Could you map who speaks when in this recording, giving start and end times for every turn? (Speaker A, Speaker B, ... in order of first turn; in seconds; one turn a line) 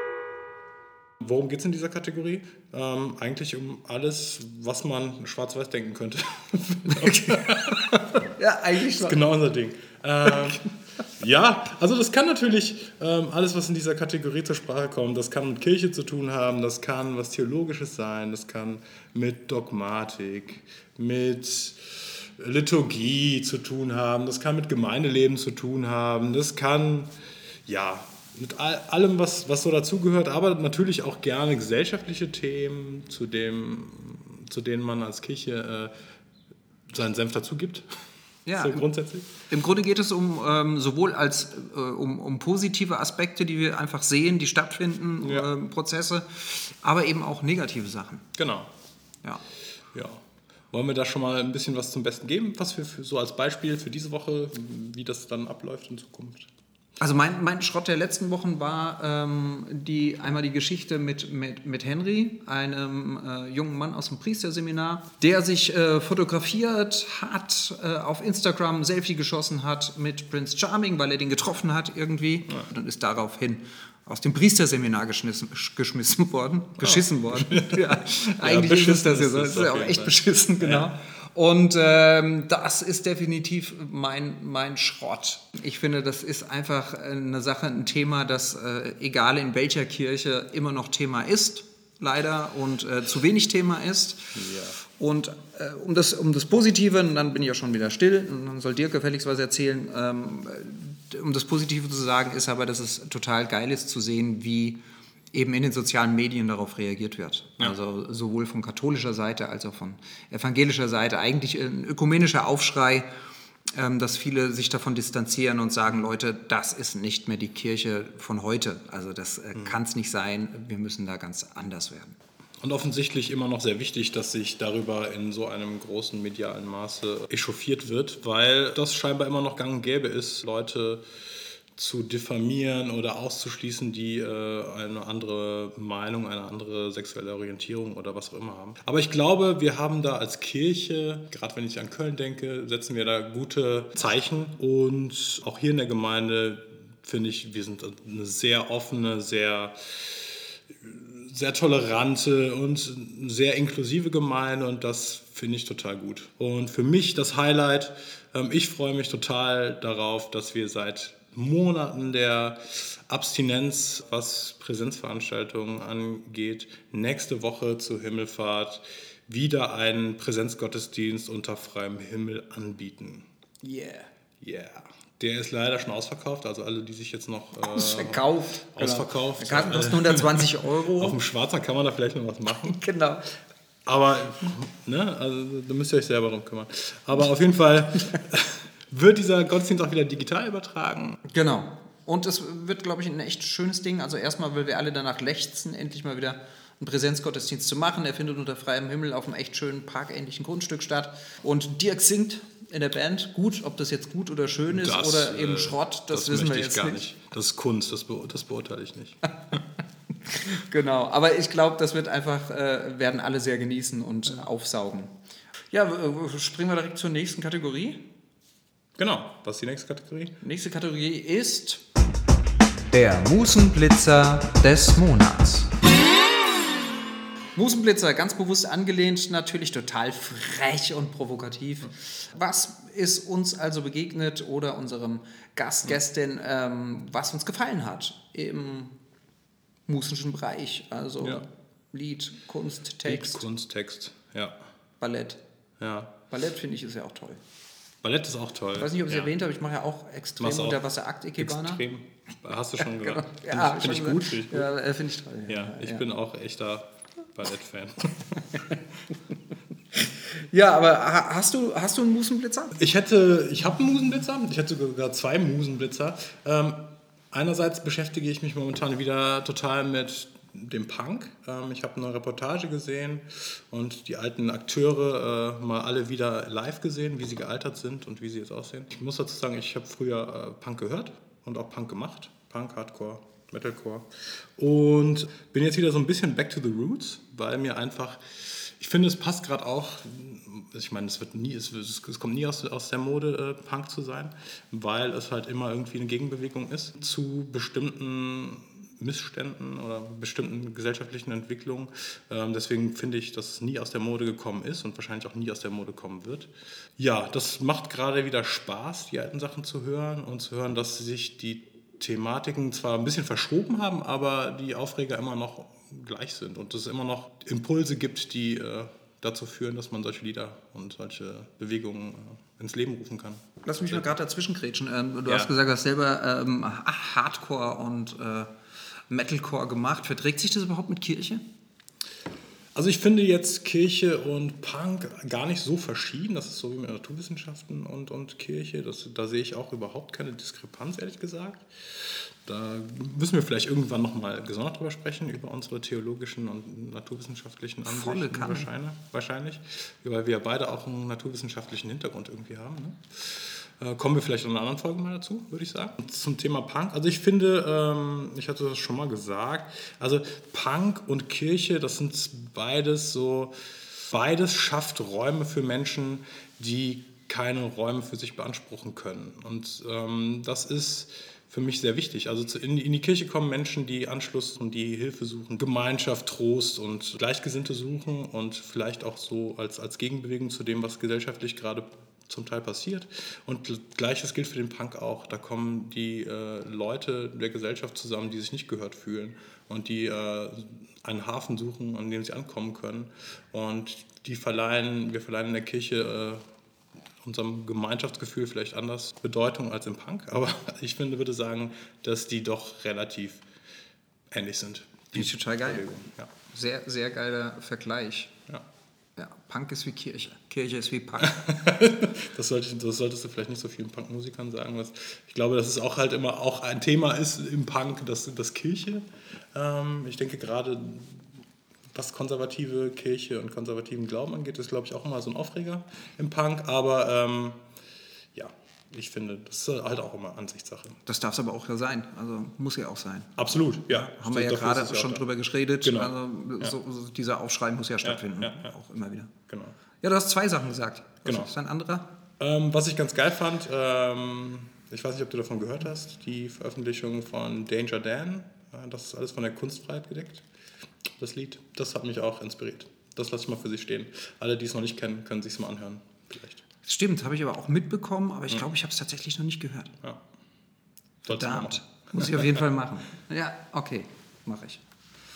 Speaker A: 1.2-8.2
Speaker B: 6.9-9.2
Speaker A: 8.9-27.1
Speaker A: 27.6-35.9
Speaker A: 36.9-37.9
Speaker B: 38.5-48.3
Speaker A: 38.5-39.5
Speaker A: 45.2-45.5
Speaker A: 48.4-48.7
Speaker A: 49.9-56.5
Speaker B: 57.0-104.8
Speaker A: 76.8-80.9
Speaker A: 94.3-94.8
Speaker B: 105.3-113.1
Speaker B: 113.7-122.2
Speaker A: 122.6-173.3
Speaker B: 173.6-174.1
Speaker A: 174.4-182.8
Speaker B: 177.6-181.2
Speaker B: 182.5-183.2
Speaker A: 183.8-191.2
Speaker B: 191.3-207.1
Speaker A: 204.7-209.6
Speaker B: 210.2-215.1
Speaker B: 215.7-218.1
Speaker A: 219.0-220.4
Speaker B: 220.4-221.8
Speaker B: 222.9-225.8
Speaker B: 227.6-238.9
Speaker B: 239.9-243.4
Speaker A: 243.1-244.6
Speaker B: 245.0-245.4
Speaker A: 245.8-246.1
Speaker B: 246.3-247.4
Speaker A: 248.0-249.3
Speaker B: 248.8-251.8
Speaker A: 250.4-254.7
Speaker B: 252.8-256.0
Speaker A: 255.5-258.8
Speaker B: 259.9-262.8
Speaker A: 262.7-324.1
Speaker B: 323.6-328.5
Speaker A: 325.3-325.5
Speaker B: 329.1-331.4
Speaker A: 332.7-396.4
Speaker B: 347.9-348.7
Speaker A: 397.2-403.4
Speaker A: 404.3-406.3
Speaker B: 405.1-406.0
Speaker B: 406.5-408.3
Speaker B: 409.2-411.4
Speaker A: 411.2-421.3
Speaker A: 421.9-427.6
Speaker A: 428.3-431.0
Speaker B: 431.1-439.3
Speaker A: 433.4-435.2
Speaker A: 435.8-436.7
Speaker A: 438.0-438.7
Speaker A: 439.5-439.8
Speaker B: 440.0-442.1
Speaker A: 441.2-441.5
Speaker A: 442.4-450.4
Speaker A: 451.2-456.6
Speaker B: 456.9-459.9
Speaker A: 461.2-462.6
Speaker B: 461.3-464.8